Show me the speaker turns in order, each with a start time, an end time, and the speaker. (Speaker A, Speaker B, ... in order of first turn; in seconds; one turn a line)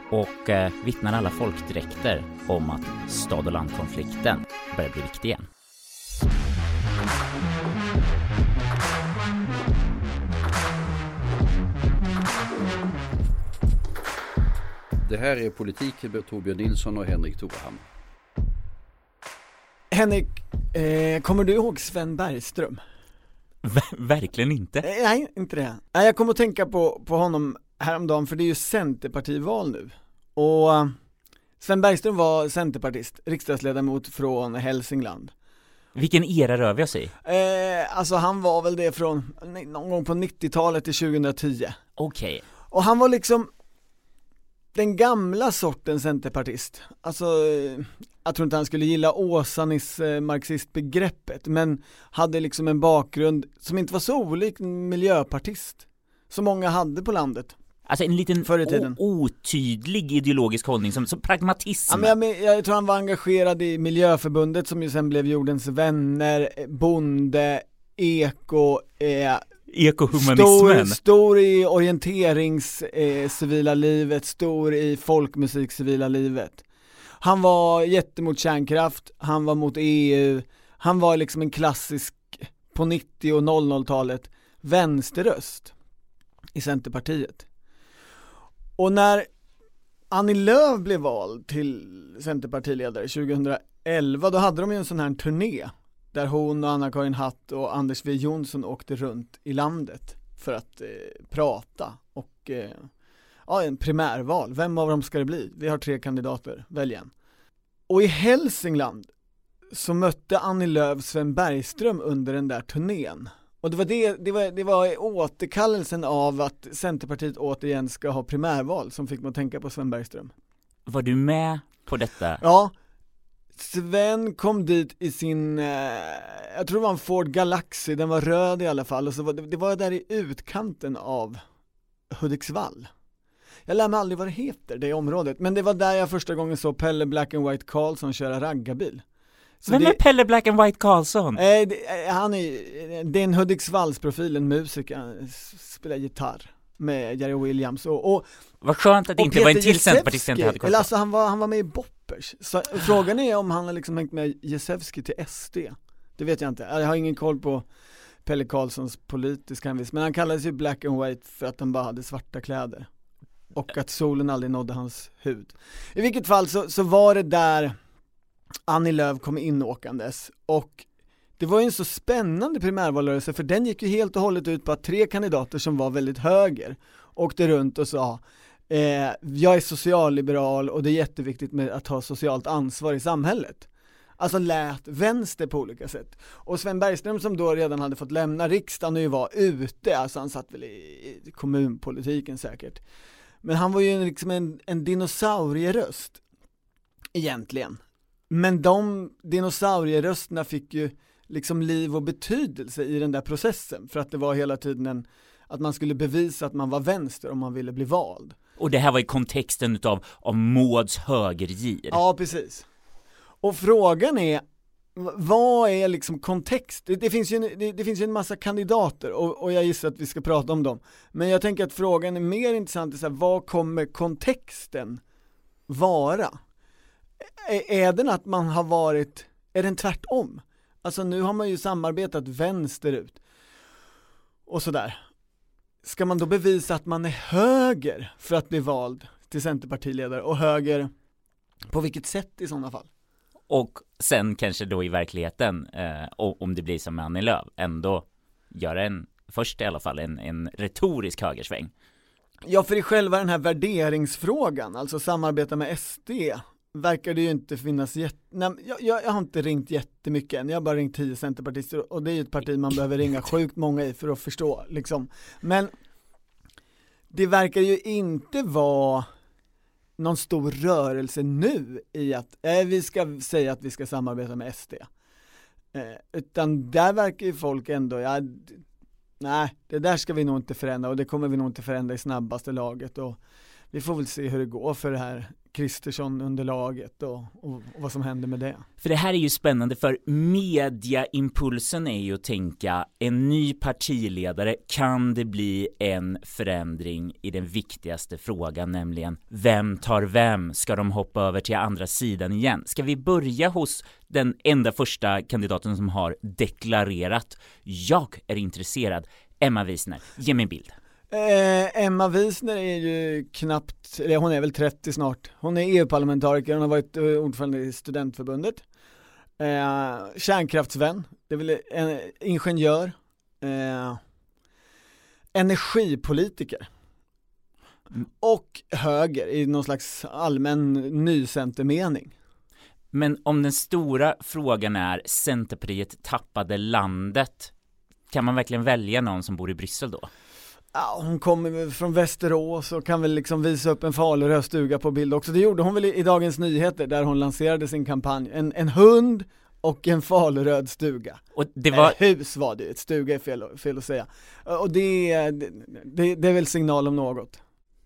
Speaker A: 0.1-5.4
Speaker B: 15.0-17.8
Speaker C: 19.9-22.8
Speaker A: 23.6-24.8
Speaker C: 24.8-30.9
Speaker C: 31.6-35.3
Speaker A: 36.0-37.1
Speaker C: 37.2-41.8
Speaker A: 42.0-42.4
Speaker C: 42.7-43.5
Speaker C: 44.7-57.5
Speaker A: 57.9-62.1
Speaker C: 58.4-59.0
Speaker C: 61.9-69.4
Speaker A: 69.7-71.0
Speaker C: 70.1-76.6
Speaker C: 77.2-85.7
Speaker C: 86.5-87.4
Speaker C: 88.8-89.3
Speaker C: 90.1-102.9
Speaker C: 103.5-107.1
Speaker C: 107.9-109.1
Speaker C: 109.7-120.3
Speaker A: 120.9-122.4
Speaker C: 122.4-122.7
Speaker C: 123.6-131.4
Speaker C: 132.1-132.9
Speaker C: 133.7-139.0
Speaker C: 139.6-140.0
Speaker A: 139.7-141.4
Speaker C: 141.3-148.3
Speaker A: 148.6-150.9
Speaker C: 149.2-157.6
Speaker C: 158.2-162.9
Speaker C: 163.5-167.7
Speaker C: 168.7-170.8
Speaker C: 171.4-183.7
Speaker C: 184.2-192.8
Speaker C: 193.4-196.2
Speaker C: 197.1-197.8
Speaker C: 198.3-208.3
Speaker A: 208.6-212.0
Speaker C: 211.9-212.7
Speaker C: 213.4-214.4
Speaker C: 214.9-225.0
Speaker C: 225.7-226.4
Speaker C: 227.4-233.2
Speaker C: 234.5-235.0
Speaker C: 235.8-240.9
Speaker C: 241.7-242.9
Speaker A: 243.5-251.7
Speaker C: 252.5-265.7
Speaker C: 267.1-269.1
Speaker C: 270.0-274.9
Speaker C: 275.7-278.6
Speaker C: 279.2-283.2
Speaker C: 283.7-288.6
Speaker A: 288.8-310.7
Speaker C: 311.1-318.6
Speaker C: 319.4-324.0
Speaker C: 325.3-326.7
Speaker C: 328.2-332.1
Speaker A: 332.9-337.5
Speaker A: 338.1-340.1
Speaker C: 340.7-351.2
Speaker A: 351.4-351.9
Speaker C: 351.7-357.4